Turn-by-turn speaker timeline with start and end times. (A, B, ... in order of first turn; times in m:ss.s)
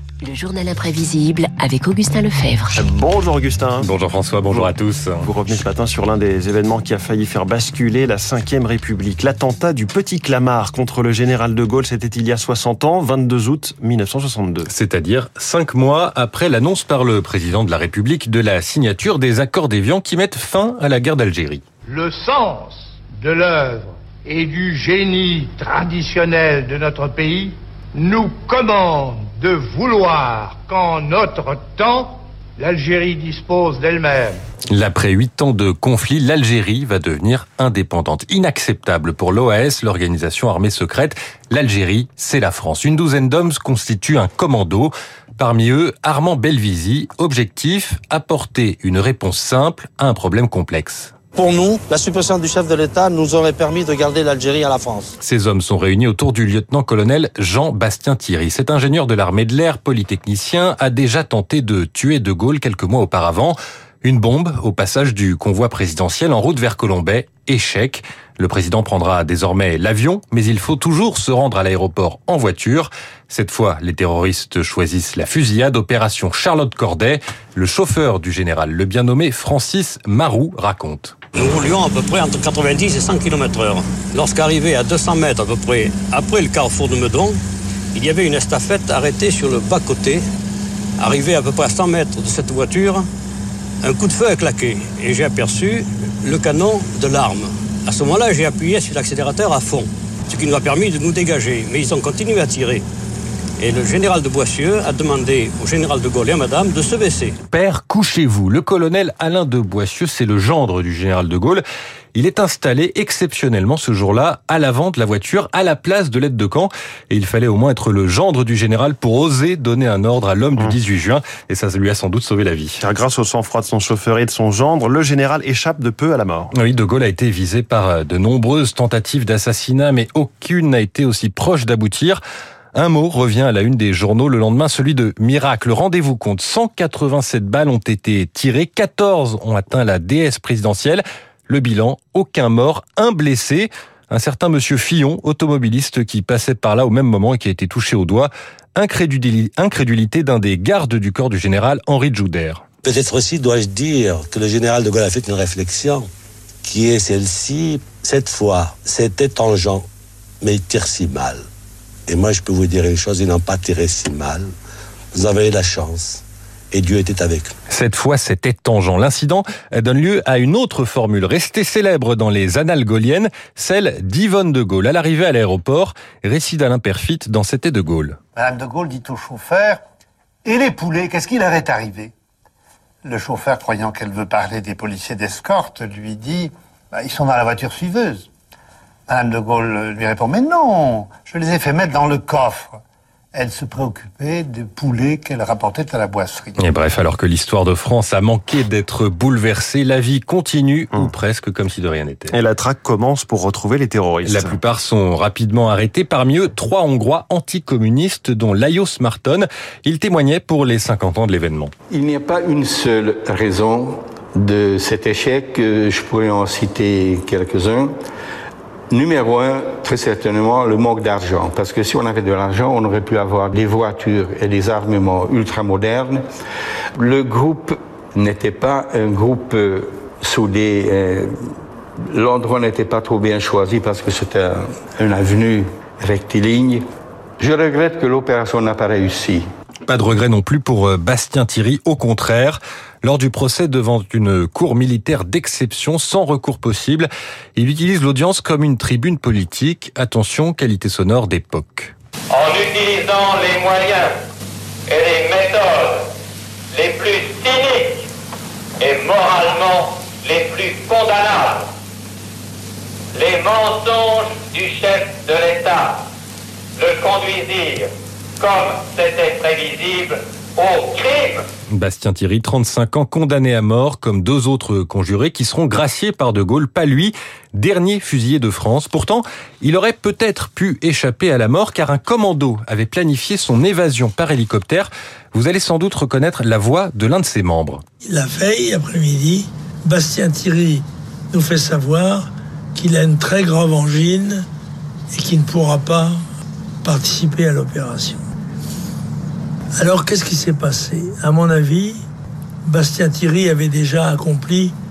0:00.2-0:02.8 A
0:02.7-0:03.9 B
0:03.8-0:05.3 C
0:04.5-0:14.7 B
0:14.7-0:21.6 C
0:21.8-0:34.4 D
0:34.7-0:51.1 C
0:55.2-1:21.2 C
1:21.4-1:27.4 E
1:27.9-1:30.2 E
1:31.0-1:33.1 E
1:33.8-1:42.8 E
1:43.6-1:47.4 E
1:47.5-2:02.8 C
2:02.8-2:06.5 B
2:06.6-2:12.2 C
2:12.7-2:32.6 C
2:32.8-2:36.1 F
2:36.6-2:39.9 F
2:40.4-2:41.4 F
2:42.1-2:44.5 F
2:45.1-2:47.5 F
2:47.7-2:58.2 C
2:58.4-2:59.8 G
3:00.4-3:02.1 G
3:03.0-3:08.3 G
3:09.1-3:12.8 G
3:13.3-3:16.6 G
3:16.6-3:22.3 C
3:22.3-3:24.6 B
3:24.2-3:31.7 C
3:31.9-3:37.9 H
3:38.9-3:46.2 H
3:47.0-3:51.3 H
3:52.1-3:56.8 H
3:57.4-3:59.4 H
3:59.9-4:11.9 C
4:12.3-4:14.1 I
4:14.9-4:16.1 I
4:16.7-4:18.1 I
4:18.8-4:21.7 I
4:23.2-4:26.0 I
4:26.8-4:27.9 I
4:28.4-4:31.4 I
4:31.7-4:47.8 C
4:48.0-4:54.5 J
4:55.1-4:56.2 J
4:56.8-4:58.2 J
4:59.8-5:02.0 J
5:02.6-5:04.8 J